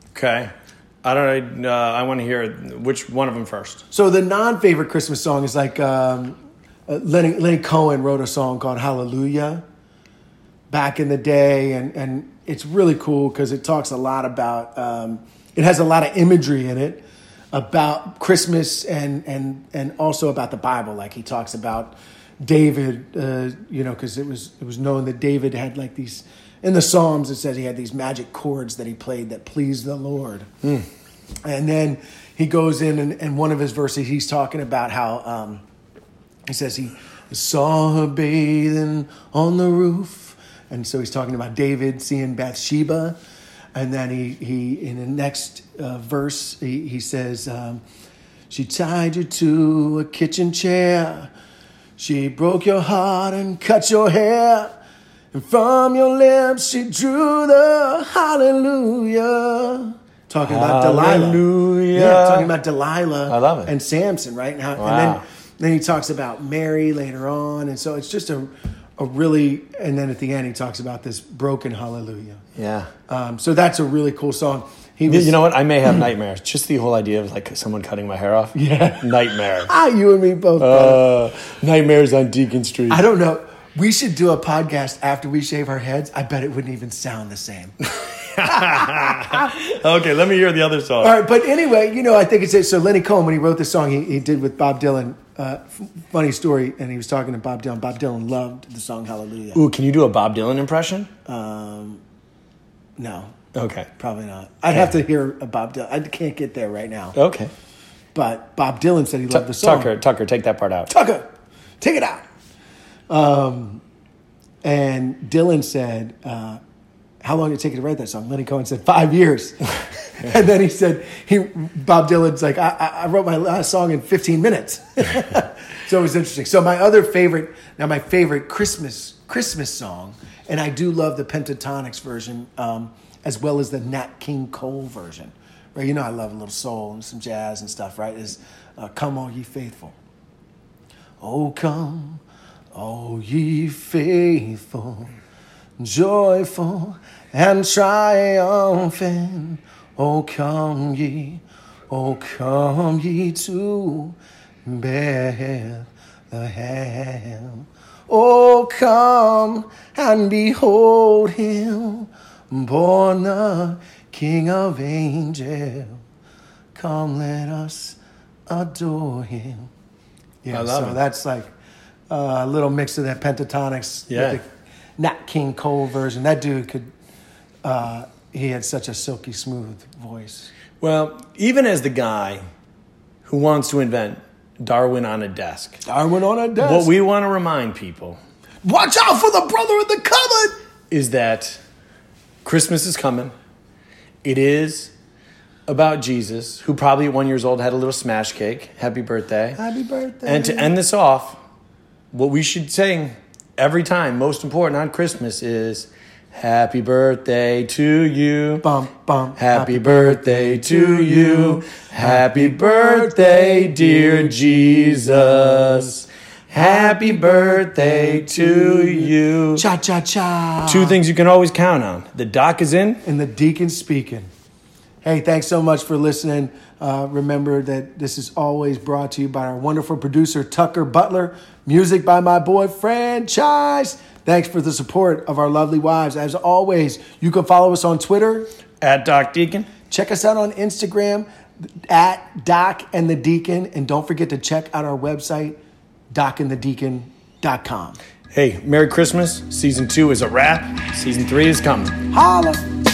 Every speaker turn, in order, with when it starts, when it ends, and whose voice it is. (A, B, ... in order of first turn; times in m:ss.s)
0:00.1-0:00.5 A
0:01.0-0:03.8 A
0:03.9-0:09.6 B
0:10.7-0:30.5 B
0:31.4-0:35.6 B
0:36.5-0:43.2 B
0:43.7-0:47.8 B
0:48.5-0:51.3 B
0:52.0-0:54.7 B
0:55.3-1:12.4 B
1:00.4-1:02.5 A
1:03.3-1:03.7 A
1:04.8-1:05.2 A
1:12.6-1:12.9 A
1:13.1-1:15.4 B
1:15.1-1:19.7 A
1:18.5-1:21.0 B
1:20.6-1:23.0 A
1:22.9-1:27.7 B
1:27.8-1:31.2 A
1:28.4-1:29.5 B
1:31.0-1:39.6 B
1:39.5-1:41.1 A
1:41.2-1:42.0 B
1:43.0-1:43.3 B
1:43.5-1:43.9 A
1:44.0-1:47.2 B
1:47.1-1:47.5 A
1:48.1-1:49.9 B
1:49.3-1:50.9 A
1:50.9-1:51.2 B
1:51.8-1:52.2 B
1:53.1-1:53.8 B
1:54.6-1:56.6 B
1:57.2-2:20.0 B
2:21.2-2:22.2 B
2:22.7-2:25.1 B
2:25.8-2:46.0 B
2:46.7-2:49.7 B
2:50.4-2:51.5 B
2:50.5-2:51.0 A
2:52.1-2:54.5 B
2:54.1-2:54.4 A
2:55.0-2:56.9 B
2:57.6-3:00.5 B
3:00.8-3:02.4 A
3:03.2-3:05.8 A
3:05.8-3:06.9 B
3:06.6-3:08.2 A
3:08.6-3:10.5 B
3:10.9-3:11.6 A
3:12.4-3:13.3 A
3:14.2-3:14.9 A
3:15.7-3:19.6 A
3:19.6-3:20.7 B
3:20.2-3:21.4 A
3:22.1-3:28.6 A
3:28.6-3:35.9 B
3:29.4-3:39.7 A
3:39.6-3:41.0 B
3:40.7-3:43.0 A
3:43.0-3:44.3 B
3:45.0-3:58.5 B
3:58.8-3:59.7 A
3:59.9-4:01.3 B
4:01.9-4:05.6 B
4:06.1-4:08.0 B
4:08.3-4:12.0 A
4:12.1-4:12.6 B